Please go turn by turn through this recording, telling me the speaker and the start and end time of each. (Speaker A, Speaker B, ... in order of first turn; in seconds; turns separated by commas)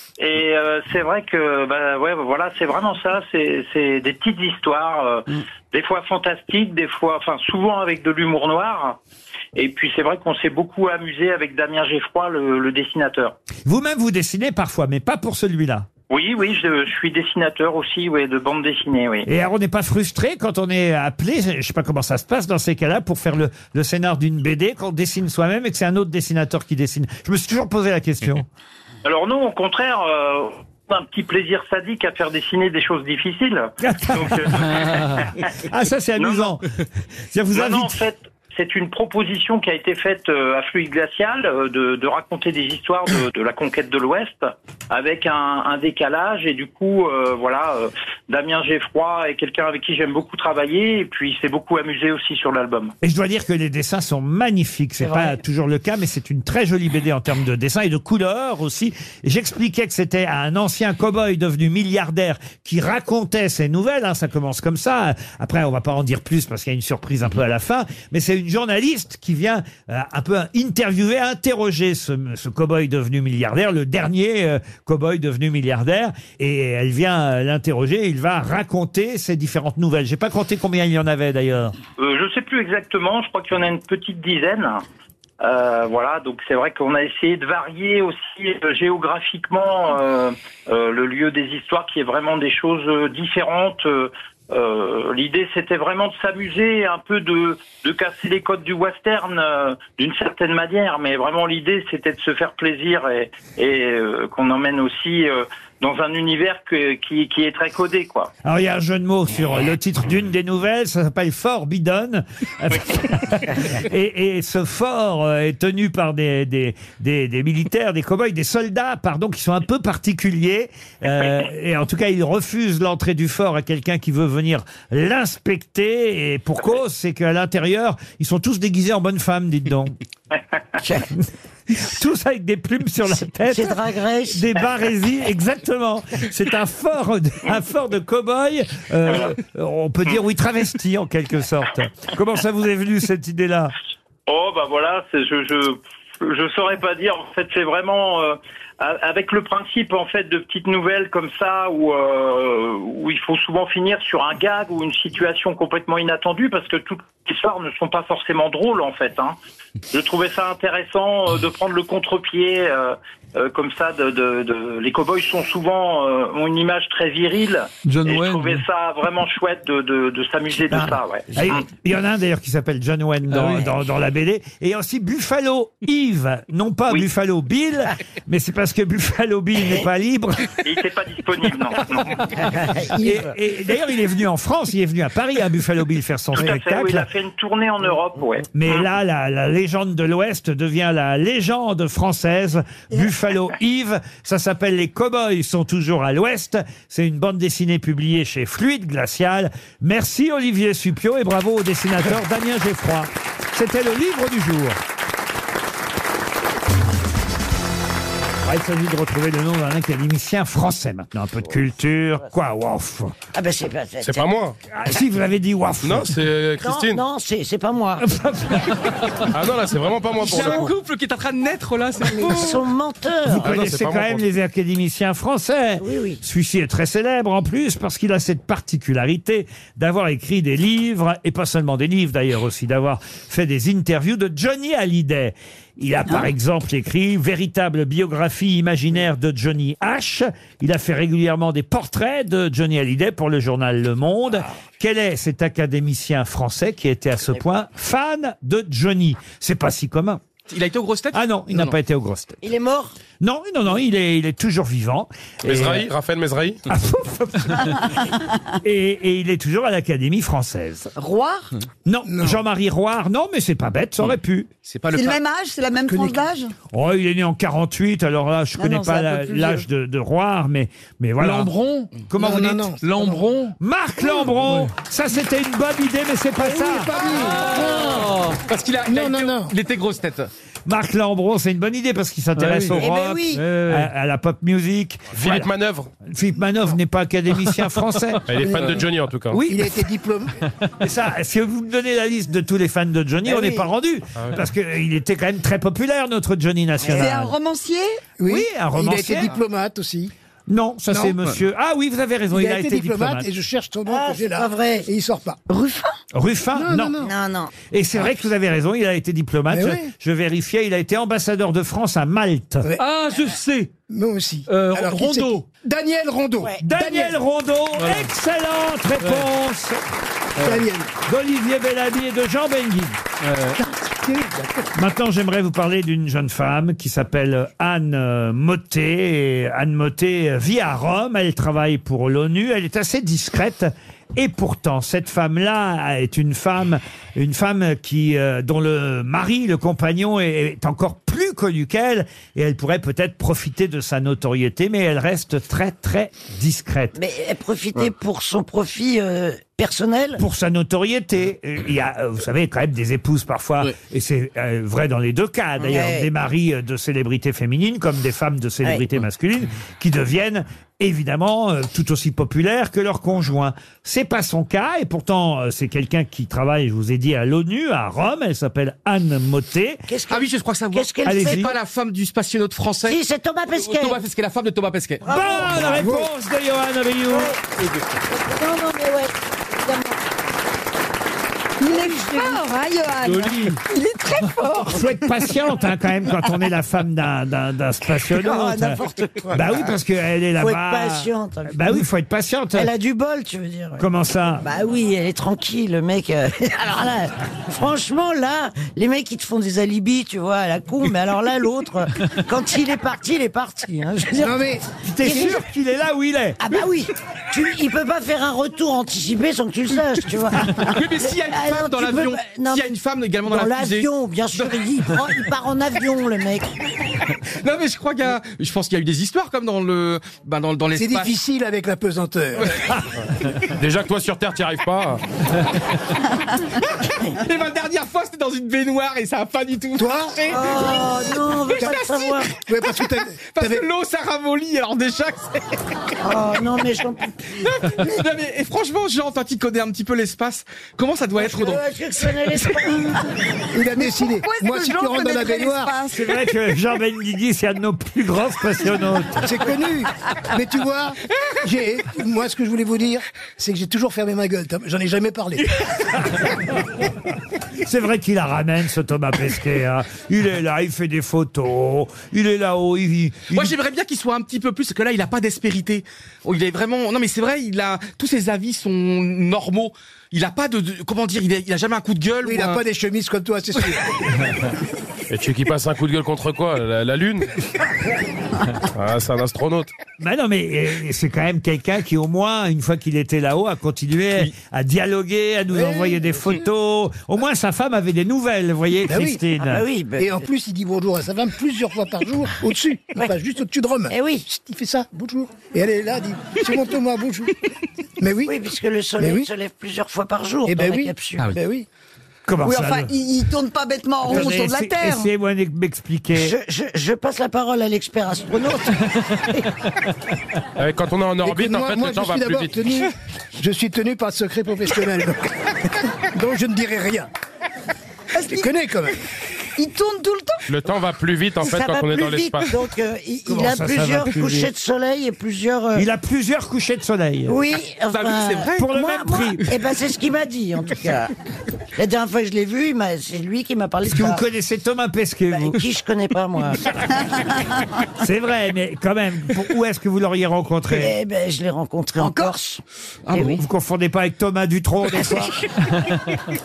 Speaker A: 0.2-9.0, Speaker A: 9.6-13.4, Speaker B: 13.7-15.9, Speaker A: 16.1-19.3, Speaker B: 19.2-28.5, Speaker A: 29.1-35.3, Speaker B: 33.8-34.8, Speaker B: 35.7-36.6, Speaker A: 36.2-36.5, Speaker B: 37.3-38.0, Speaker A: 37.5-53.0, Speaker B: 53.0-81.8, Speaker C: 55.0-55.4, Speaker A: 82.0-84.8, Speaker A: 85.4-108.3, Speaker B: 108.4-130.0, Speaker B: 131.7-143.7, Speaker C: 133.4-134.5, Speaker A: 144.3-159.4, Speaker A: 159.9-171.6, Speaker D: 167.8-168.6, Speaker B: 171.4-180.5, Speaker D: 173.3-173.7, Speaker A: 180.6-182.2, Speaker C: 182.6-183.2, Speaker B: 183.0-187.1, Speaker A: 186.3-188.8, Speaker B: 188.5-204.8, Speaker B: 208.4-213.2, Speaker C: 213.3-214.3, Speaker E: 214.0-214.6, Speaker B: 214.7-216.1, Speaker E: 215.8-217.0, Speaker C: 216.6-218.1, Speaker B: 218.0-218.8, Speaker E: 219.3-220.7, Speaker F: 220.2-222.7, Speaker C: 222.1-223.6, Speaker B: 223.3-250.2, Speaker E: 223.4-224.2, Speaker C: 225.8-226.2, Speaker F: 250.5-251.7, Speaker B: 251.1-252.4, Speaker C: 252.4-253.0, Speaker B: 253.2-255.9, Speaker E: 255.4-256.6, Speaker B: 256.7-257.8, Speaker B: 258.6-260.9, Speaker G: 261.0-261.5, Speaker B: 261.9-264.5, Speaker H: 262.1-262.4, Speaker F: 264.6-265.2, Speaker G: 264.9-266.5, Speaker H: 265.9-266.2, Speaker B: 266.7-271.5, Speaker G: 268.6-269.6, Speaker D: 271.2-271.9, Speaker B: 272.1-272.6, Speaker H: 272.2-273.3, Speaker D: 272.8-273.6, Speaker B: 273.6-277.0, Speaker D: 274.4-274.7, Speaker H: 276.4-278.2, Speaker F: 277.4-280.3, Speaker D: 278.0-278.4, Speaker H: 278.9-279.5, Speaker B: 280.7-285.5, Speaker D: 282.4-283.9, Speaker C: 282.8-283.4, Speaker E: 285.1-285.9, Speaker B: 286.1-288.8, Speaker E: 288.3-289.4, Speaker H: 288.4-288.8, Speaker B: 289.3-289.7, Speaker H: 289.5-290.3, Speaker B: 290.8-297.3, Speaker C: 293.3-293.7, Speaker G: 296.9-298.0, Speaker H: 298.2-300.1, Speaker B: 298.3-299.3, Speaker B: 300.5-303.3, Speaker H: 300.9-301.2, Speaker H: 302.3-305.4, Speaker C: 303.9-304.9, Speaker B: 306.1-307.1, Speaker H: 306.5-307.1, Speaker C: 307.0-307.5, Speaker B: 307.7-312.7, Speaker H: 309.5-309.9, Speaker D: 312.8-313.7, Speaker H: 313.9-317.1, Speaker D: 314.5-315.5, Speaker B: 316.6-319.8, Speaker D: 317.8-318.1, Speaker D: 319.0-319.3, Speaker D: 320.4-320.7, Speaker H: 320.4-320.9, Speaker B: 321.1-323.0, Speaker D: 323.2-323.6, Speaker H: 323.6-324.7, Speaker B: 324.8-347.0, Speaker C: 347.0-350.2, Speaker B: 350.2-369.8, Speaker C: 355.6-356.1, Speaker C: 369.9-371.5, Speaker F: 370.1-373.0, Speaker B: 371.1-371.5, Speaker C: 372.8-374.0, Speaker F: 373.5-375.1, Speaker C: 375.0-375.9, Speaker B: 375.1-377.3, Speaker H: 375.6-376.1, Speaker C: 377.1-377.4, Speaker C: 378.1-380.0, Speaker G: 381.6-384.8, Speaker C: 381.6-382.4, Speaker D: 383.0-383.6, Speaker B: 384.7-388.8, Speaker C: 388.1-389.7, Speaker B: 389.3-392.7, Speaker C: 390.4-391.8, Speaker C: 392.5-393.9, Speaker B: 393.8-394.4, Speaker C: 394.4-404.4, Speaker H: 404.2-404.6, Speaker B: 404.8-406.4, Speaker C: 405.0-405.4, Speaker C: 406.4-412.7, Speaker F: 410.7-415.0, Speaker C: 413.2-416.5, Speaker F: 417.4-421.1, Speaker H: 420.8-422.5, Speaker E: 423.6-425.0, Speaker F: 427.1-432.3, Speaker H: 429.8-430.2, Speaker C: 430.3-432.3, Speaker H: 431.6-433.6, Speaker F: 433.3-435.4, Speaker C: 436.0-437.3, Speaker F: 437.4-441.6, Speaker C: 441.2-443.0, Speaker H: 443.5-445.7, Speaker G: 443.8-446.1, Speaker B: 445.9-449.3, Speaker H: 449.2-455.5, Speaker B: 457.6-463.5, Speaker F: 463.3-472.6, Speaker H: 472.2-473.9, Speaker E: 475.1-477.3, Speaker E: 478.8-479.7, Speaker B: 480.0-489.6, Speaker H: 485.5-486.0, Speaker H: 488.9-489.2, Speaker C: 489.4-490.2, Speaker H: 490.0-497.3, Speaker C: 493.9-494.3, Speaker H: 498.0-498.3, Speaker C: 498.2-501.3, Speaker H: 499.0-499.3, Speaker H: 500.5-501.7, Speaker B: 502.3-502.9, Speaker G: 502.4-505.1, Speaker B: 504.1-506.4, Speaker C: 506.1-509.4, Speaker E: 510.6-512.6, Speaker H: 511.2-515.2, Speaker H: 516.1-517.1, Speaker G: 518.1-518.5, Speaker H: 518.3-519.0, Speaker G: 519.6-520.5, Speaker E: 520.5-522.5, Speaker C: 521.4-525.9, Speaker B: 523.3-524.5, Speaker B: 525.8-527.4, Speaker C: 527.3-531.1, Speaker F: 527.9-528.7, Speaker B: 528.6-529.4, Speaker C: 531.8-534.2, Speaker B: 533.9-535.6, Speaker C: 535.3-536.6, Speaker B: 538.0-541.0, Speaker C: 540.7-542.6, Speaker G: 542.0-542.4, Speaker F: 543.1-543.4, Speaker B: 543.1-545.3, Speaker C: 545.0-545.3